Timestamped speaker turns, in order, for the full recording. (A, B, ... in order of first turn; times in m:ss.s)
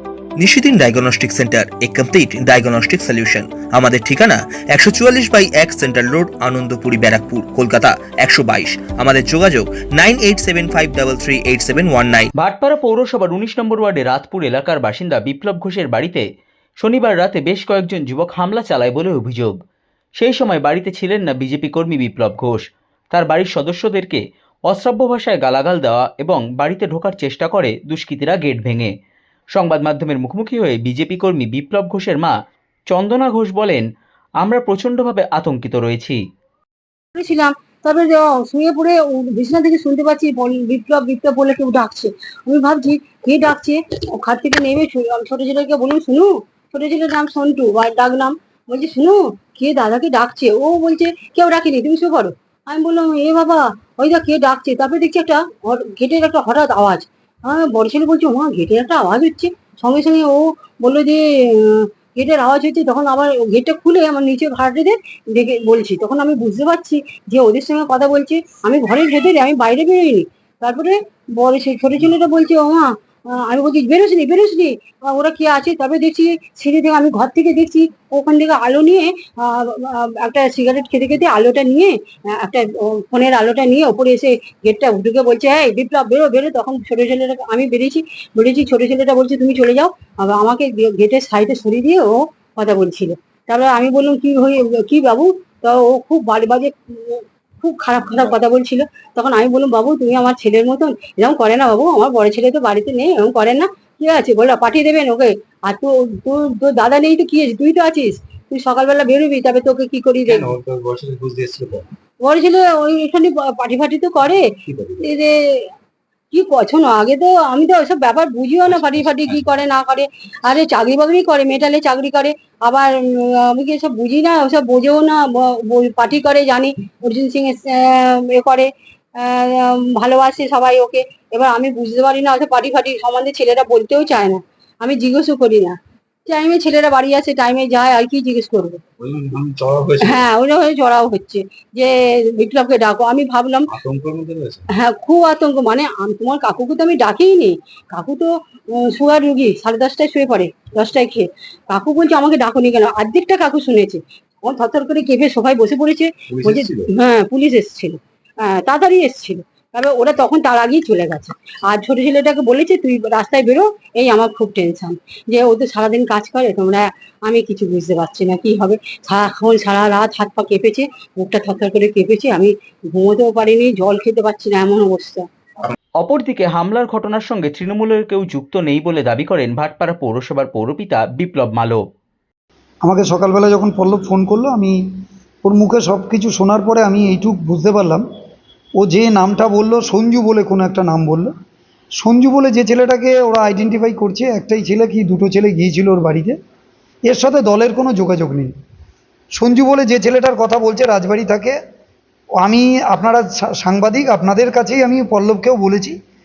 0:00.4-0:12.3 A
0:12.4-0:16.2 B
0:16.8-0:19.5 B
0:20.2-0:28.9 B
0:29.6-0:32.3 B
0:32.9-0:33.8 B
0:34.4-0:36.2 B
0:37.2-1:50.5 C
1:50.3-1:51.9 D
1:52.2-1:54.4 C
1:54.7-1:55.1 D
1:55.0-1:55.7 C
1:56.3-2:18.8 C
1:58.7-1:59.5 D
2:19.0-2:20.3 D
2:20.0-2:23.7 C
2:23.7-2:24.7 D
2:24.7-2:55.3 C
2:36.3-2:36.9 D
2:56.0-3:01.8 B
3:02.8-3:04.8 E
3:05.4-3:08.0 E
3:08.8-3:11.3 E
3:12.0-3:16.4 E
3:17.1-3:18.5 E
3:19.4-3:21.6 E
3:22.4-3:26.0 E